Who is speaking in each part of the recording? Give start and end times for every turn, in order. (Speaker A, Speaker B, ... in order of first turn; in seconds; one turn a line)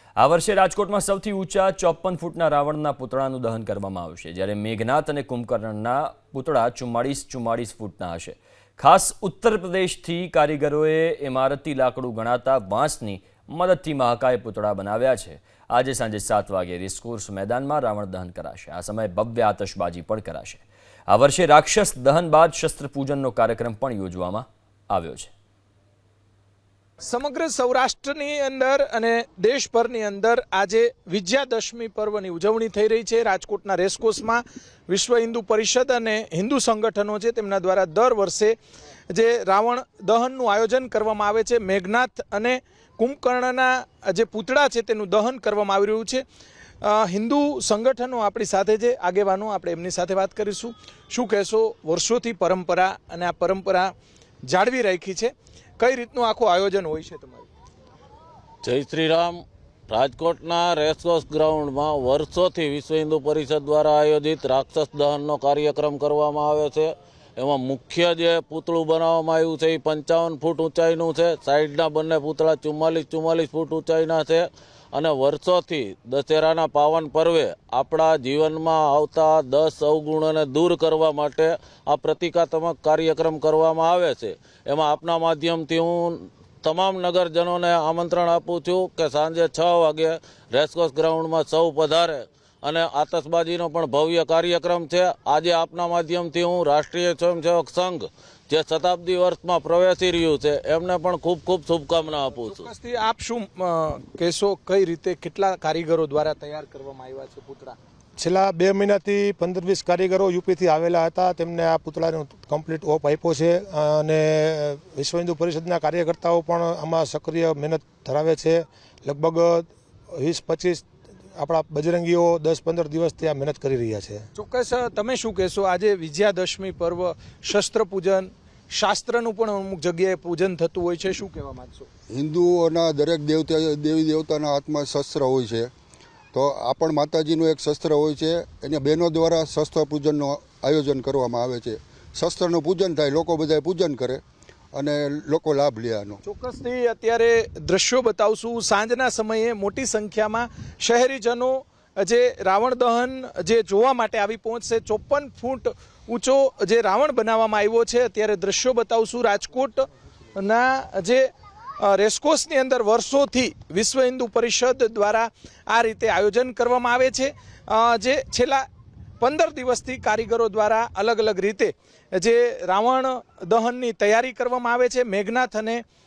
Speaker A: 0.2-25.3
Speaker B: 27.0-38.6
Speaker B: 39.1-46.2
Speaker B: 46.8-53.9
Speaker B: 54.4-57.5
Speaker C: 58.6-102.7
Speaker B: 102.4-107.8
Speaker D: 108.2-124.3
Speaker B: 124.3-131.9
Speaker E: 132.1-135.7
Speaker E: 136.3-144.2
Speaker E: 144.7-146.2
Speaker B: 146.2-161.3
Speaker B: 161.8-168.6
Speaker B: 169.2-175.8